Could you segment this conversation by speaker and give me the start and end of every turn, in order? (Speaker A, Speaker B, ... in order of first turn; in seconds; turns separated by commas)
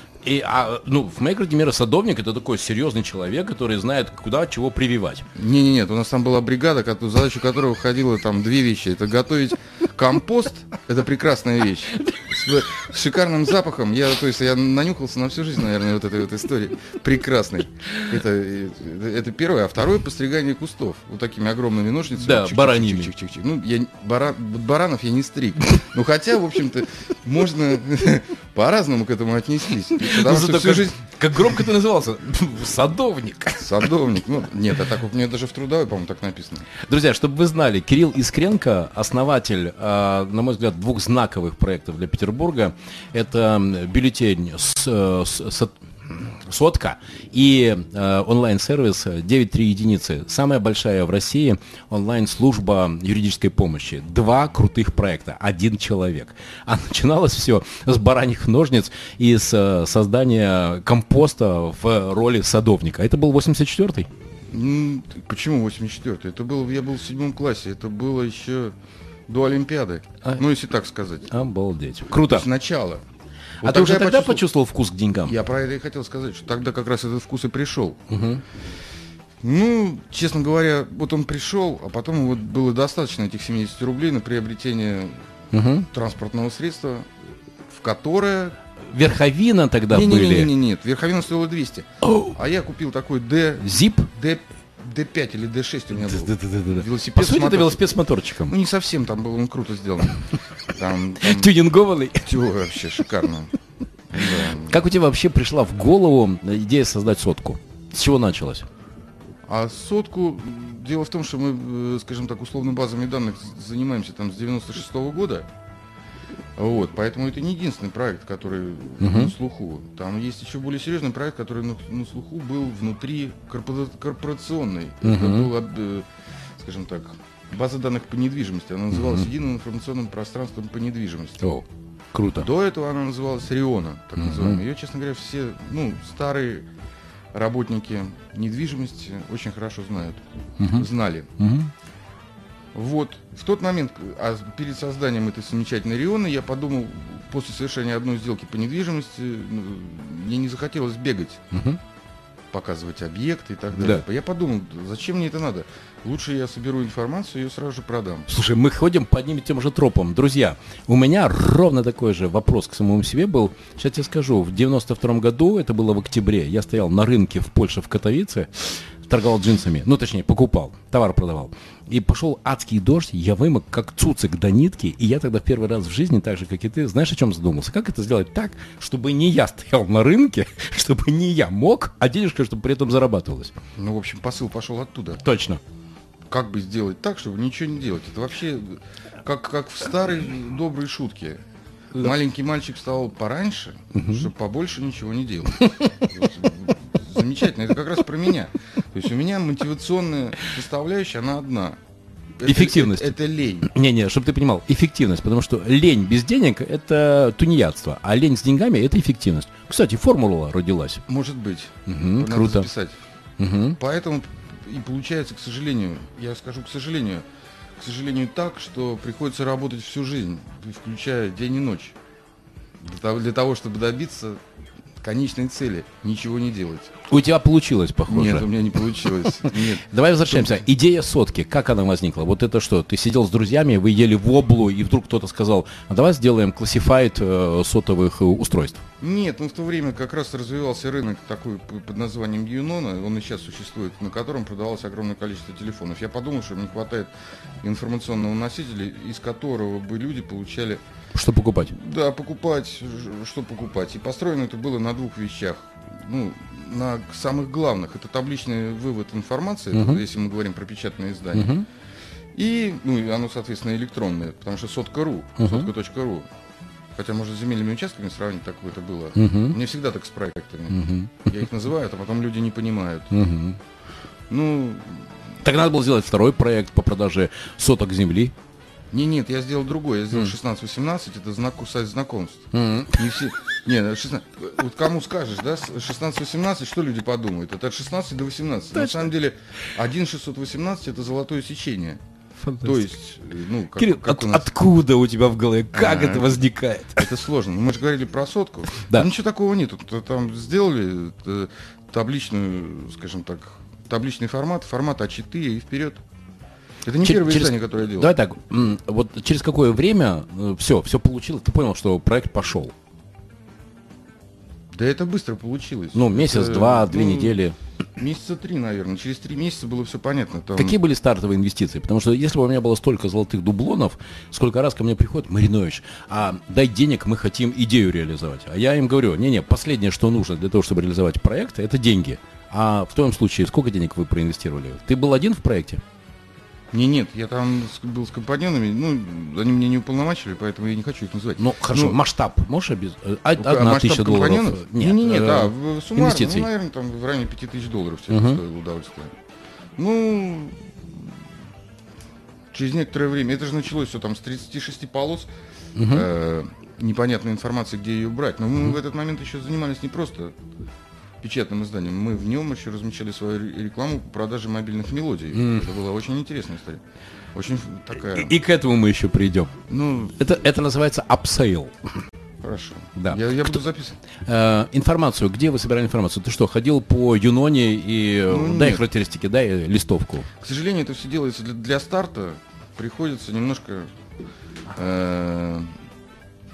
Speaker A: 0.2-5.2, Speaker B: 5.3-31.7, Speaker A: 22.1-23.1, Speaker A: 30.0-33.9, Speaker B: 33.6-36.7, Speaker A: 36.8-64.1, Speaker B: 64.5-68.7, Speaker B: 69.3-71.3, Speaker A: 71.3-72.5, Speaker B: 72.2-73.0, Speaker B: 73.6-74.4, Speaker A: 73.6-75.3, Speaker B: 75.2-78.0, Speaker A: 78.1-78.4, Speaker B: 79.4-85.2, Speaker A: 85.5-85.9, Speaker B: 85.9-87.1, Speaker B: 87.7-88.6, Speaker A: 88.8-90.5, Speaker B: 89.9-101.5, Speaker A: 92.0-92.4, Speaker A: 93.6-94.1, Speaker A: 96.0-98.5, Speaker A: 101.2-102.3, Speaker B: 102.2-103.5, Speaker B: 104.1-104.8, Speaker A: 104.2-108.7, Speaker B: 109.5-115.5, Speaker B: 116.5-126.1, Speaker A: 119.0-119.3, Speaker A: 125.0-125.5, Speaker B: 126.6-131.5, Speaker A: 128.9-129.3, Speaker A: 131.4-132.5, Speaker B: 132.3-136.7, Speaker A: 134.2-134.6, Speaker B: 137.3-141.3, Speaker A: 140.6-140.9, Speaker A: 141.4-141.7, Speaker B: 142.7-151.4, Speaker A: 151.5-151.8, Speaker B: 152.5-158.3, Speaker A: 153.7-154.0, Speaker A: 158.3-183.5, Speaker B: 183.8-185.3, Speaker A: 185.2-185.6, Speaker B: 186.3-191.4, Speaker B: 192.0-201.8, Speaker A: 193.9-194.3, Speaker A: 195.6-196.1, Speaker B: 202.4-203.7, Speaker A: 202.4-211.0, Speaker B: 211.1-213.0, Speaker A: 211.8-212.7, Speaker A: 213.4-213.8, Speaker B: 213.8-217.2, Speaker B: 217.8-221.9, Speaker B: 222.8-224.4, Speaker B: 225.0-226.9, Speaker A: 227.1-228.5, Speaker B: 228.1-230.6, Speaker A: 229.3-238.8, Speaker B: 239.0-247.1, Speaker B: 247.6-250.8, Speaker A: 251.2-251.7, Speaker B: 251.7-261.5, Speaker A: 259.7-260.0, Speaker A: 261.3-261.6, Speaker B: 262.3-266.3, Speaker A: 265.4-265.7, Speaker B: 266.9-273.1, Speaker A: 269.1-269.6, Speaker A: 270.7-271.2, Speaker A: 273.1-273.6, Speaker B: 274.3-275.2, Speaker A: 275.4-278.3, Speaker B: 278.9-292.0, Speaker A: 282.5-283.0, Speaker A: 288.8-289.1, Speaker A: 292.4-292.9, Speaker B: 292.6-294.5, Speaker A: 293.8-297.1, Speaker B: 295.7-296.4, Speaker B: 296.9-306.0, Speaker A: 298.8-299.1, Speaker B: 306.9-308.1, Speaker A: 307.0-312.7, Speaker B: 314.7-317.4, Speaker A: 315.9-317.6, Speaker B: 318.0-320.8, Speaker A: 320.6-335.8, Speaker B: 336.7-342.0, Speaker A: 341.4-346.5, Speaker B: 343.4-349.1, Speaker A: 348.1-348.4, Speaker B: 349.8-351.1, Speaker B: 352.5-355.3, Speaker A: 355.8-356.1, Speaker B: 355.9-360.4, Speaker B: 361.2-366.8, Speaker A: 365.3-365.7, Speaker B: 367.3-368.3, Speaker A: 368.1-369.5, Speaker B: 369.7-370.2, Speaker A: 370.2-371.7, Speaker B: 372.4-374.0, Speaker A: 373.0-373.6, Speaker A: 374.1-380.3, Speaker B: 378.3-378.9, Speaker B: 380.4-383.9, Speaker B: 384.7-385.8